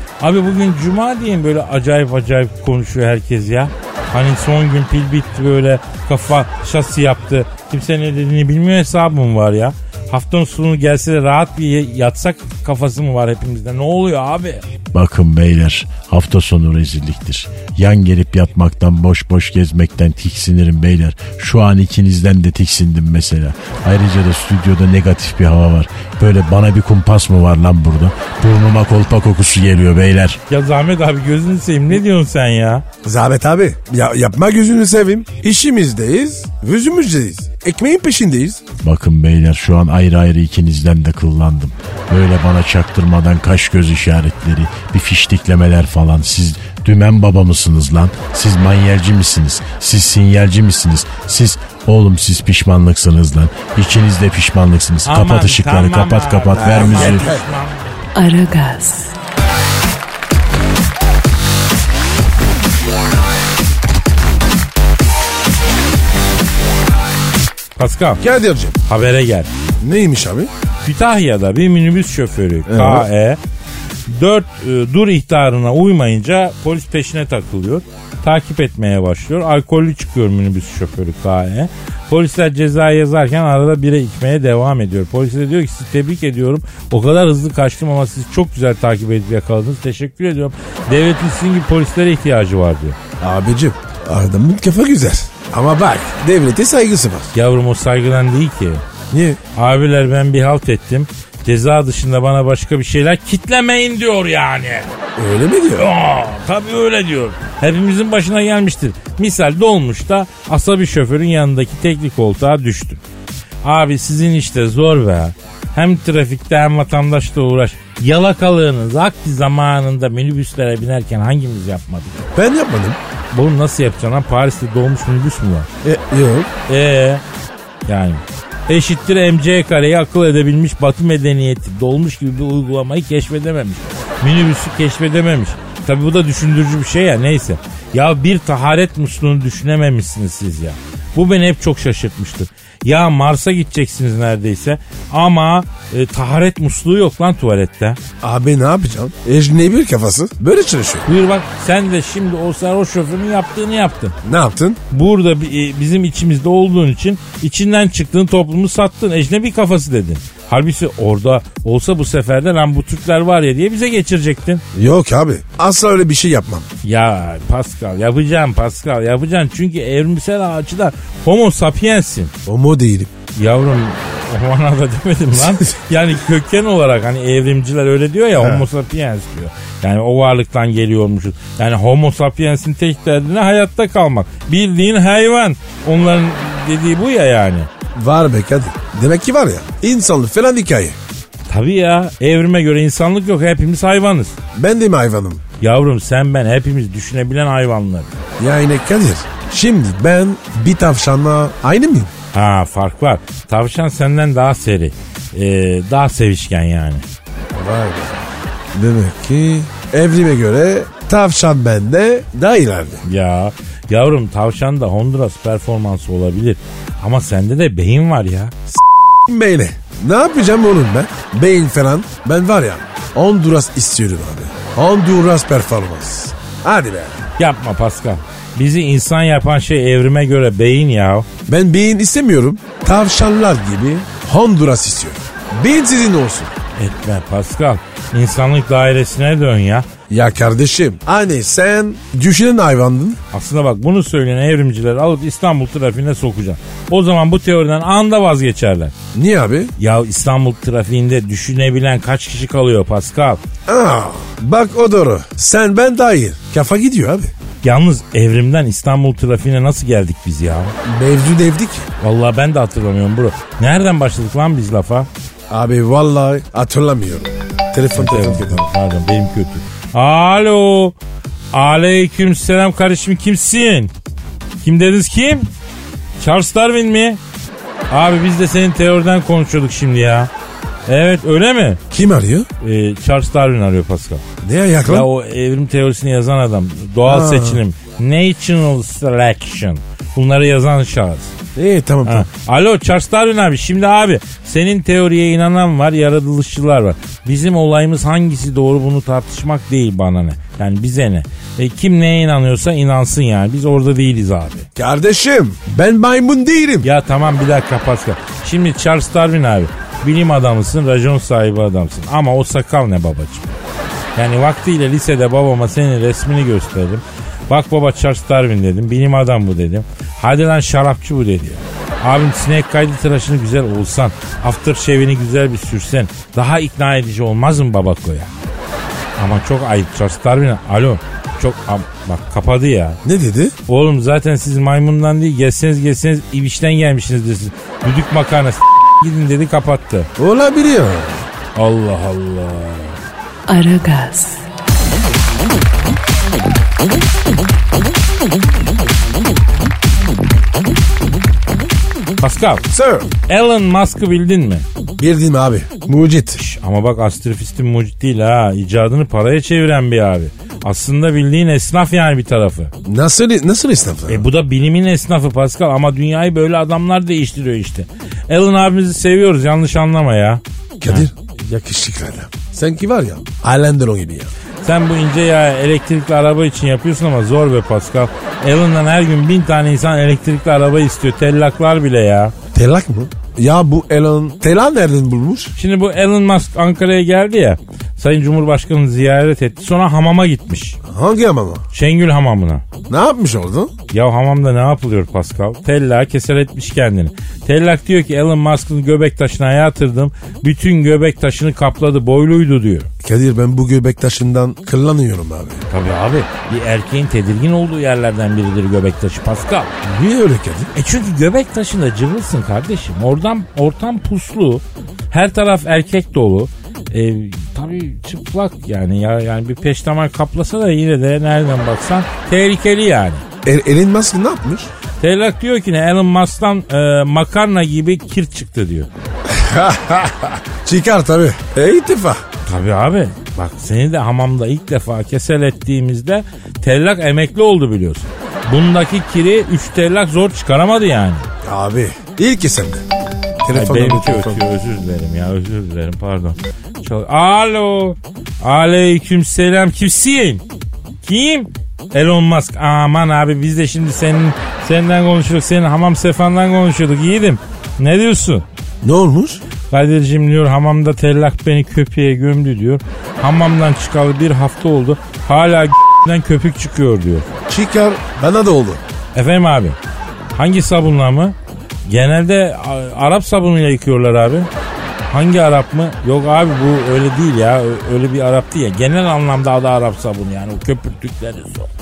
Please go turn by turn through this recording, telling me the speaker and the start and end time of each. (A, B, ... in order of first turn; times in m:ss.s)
0:00.2-0:14.6 A
0:14.9-0:30.4 B
0:30.5-0:32.8 A
0:33.0-0:38.6 C
0:38.8-0:57.3 B
0:55.0-0:58.0 A
0:56.5-0:57.4 C
0:58.2-0:59.1 D
1:07.8-1:08.2 A
1:08.2-1:08.8 C
1:08.9-1:09.5 A
1:09.8-1:10.5 C
1:10.8-1:13.4 A
1:12.7-1:13.1 C
1:14.1-1:33.0 A
1:33.2-1:37.3 C
1:37.3-1:38.8 A
1:39.1-1:39.4 C
1:39.6-1:44.9 A
1:45.2-1:45.8 C
1:45.7-1:53.0 A
1:53.6-2:02.3 A
2:02.3-2:03.0 C
2:03.3-2:05.7 A
2:05.8-2:06.5 C
2:06.7-2:07.2 A
2:07.9-2:28.0 A
2:28.2-2:31.1 C
2:31.0-2:34.1 A
2:34.2-2:34.8 C
2:34.9-2:44.6 A
2:44.7-2:46.7 C
2:46.8-2:52.3 A
2:52.4-2:53.1 C
2:53.3-3:07.7 A
2:58.4-2:58.6 C
3:07.9-3:11.0 C
3:11.5-3:14.3 A
3:14.5-3:15.4 C
3:15.6-3:18.1 A
3:18.4-3:22.1 C
3:22.3-3:27.0 A
3:27.5-3:33.0 C
3:33.0-3:38.5 A
3:38.7-3:47.1 C
3:47.4-3:51.3 A
3:51.5-3:56.5 C
3:56.8-3:59.8 A
4:00.1-4:03.2 C
4:03.3-4:08.9 A
4:09.1-4:09.7 C
4:09.8-4:13.4 A
4:13.7-4:17.3 C
4:17.6-4:20.7 A
4:20.8-4:21.9 C
4:22.0-4:25.1 A
4:25.5-4:28.6 C
4:27.9-4:30.9 A
4:31.5-4:33.9 A
4:34.6-4:35.5 A
4:36.2-4:37.2 A
4:37.9-4:40.3 A
4:40.9-4:41.8 A
4:41.9-4:42.5 C
4:42.6-4:44.2 A
4:44.4-4:45.1 C
4:44.9-4:51.3 A
4:47.0-4:47.6 C
4:51.5-4:52.2 C
4:52.0-5:04.7 A
5:04.8-5:06.8 C
5:06.8-5:13.5 A
5:14.2-5:28.3 A
5:29.2-5:33.0 A
5:33.0-5:33.5 C
5:33.7-5:40.1 A
5:40.2-5:41.2 C
5:41.6-5:43.0 A
5:43.5-5:44.4 D
5:52.2-5:52.6 A
5:52.7-5:53.1 C
5:53.3-5:54.6 A
5:55.0-5:56.4 C
5:56.4-6:02.7 A
6:02.8-6:04.2 C
6:04.1-6:11.1 A
6:10.8-6:14.3 C
6:14.6-6:22.3 A
6:22.5-6:25.5 C
6:25.6-6:30.8 A
6:30.9-6:31.6 C
6:31.7-6:32.6 A
6:32.9-6:33.7 C
6:33.9-6:42.9 A
6:43.0-6:45.6 C
6:45.7-6:49.7 A
6:49.8-6:50.7 C
6:50.7-7:03.2 A
7:03.4-7:04.7 C
7:05.0-7:08.9 A
7:09.3-7:12.2 C
7:12.4-7:21.3 A
7:21.4-7:22.8 C
7:23.4-7:24.4 C
7:23.5-7:30.4 A
7:31.0-7:38.4 A
7:38.8-7:39.4 C
7:39.7-7:47.3 A
7:47.5-7:48.8 C
7:49.1-7:49.8 A
7:50.4-7:51.3 A
7:51.9-7:54.5 A
7:55.1-8:01.7 A